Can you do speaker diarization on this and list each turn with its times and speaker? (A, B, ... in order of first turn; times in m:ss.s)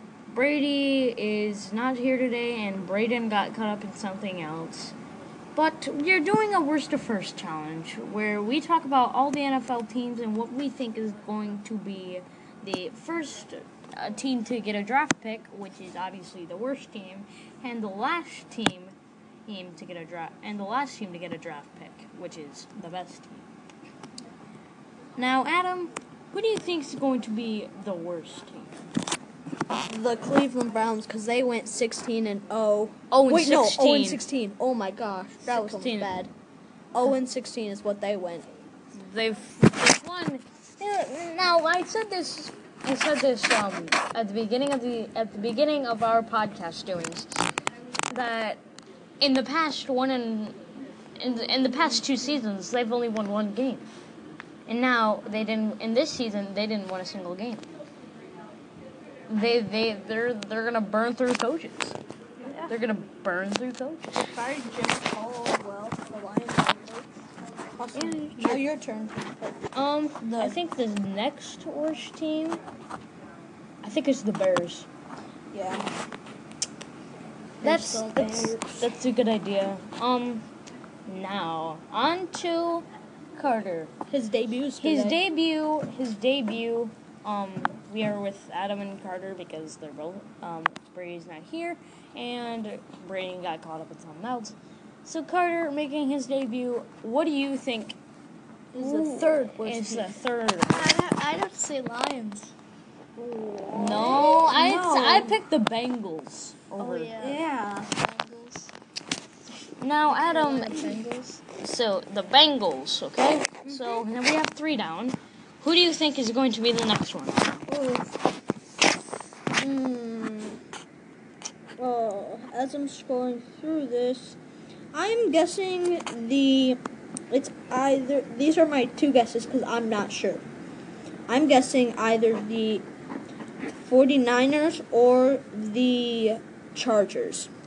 0:00.3-0:05.0 A
0:05.6-0:18.9 A
0:19.5-0:23.5 A
0:25.2-0:28.8 A
0:29.9-0:36.3 B
0:33.1-0:34.2 A
0:35.4-0:36.2 A
0:36.9-0:38.5 B
0:38.9-0:47.5 A
0:48.1-0:48.6 A
0:49.2-0:50.6 A
0:51.2-0:53.9 A
0:54.7-0:57.7 A
0:59.3-1:02.0 A
1:02.4-1:02.8 B
1:02.7-1:04.3 A
1:04.2-1:07.1 B
1:07.8-1:09.6 B
1:07.9-1:08.6 A
1:09.7-1:12.6 A
1:10.2-1:10.6 B
1:13.8-1:14.9 A
1:15.5-1:15.9 B
1:17.6-1:18.6 C
1:17.6-1:20.4 A
1:17.8-1:18.8 B
1:21.1-1:23.9 A
1:24.1-1:25.2 B
1:24.8-1:38.0 A
1:38.7-1:42.5 C
1:38.8-1:40.9 A
1:38.8-1:39.3 B
1:43.2-1:45.4 B
1:43.7-1:47.2 A
1:46.8-1:48.7 C
1:47.2-1:47.9 B
1:49.8-1:51.0 A
1:50.1-1:51.4 C
1:51.6-1:57.7 A
1:53.6-1:54.1 B
1:57.7-1:58.1 B
1:59.6-2:00.6 B
2:01.8-2:04.4 B
2:04.9-2:10.4 B
2:11.3-2:12.9 B
2:13.8-2:17.5 B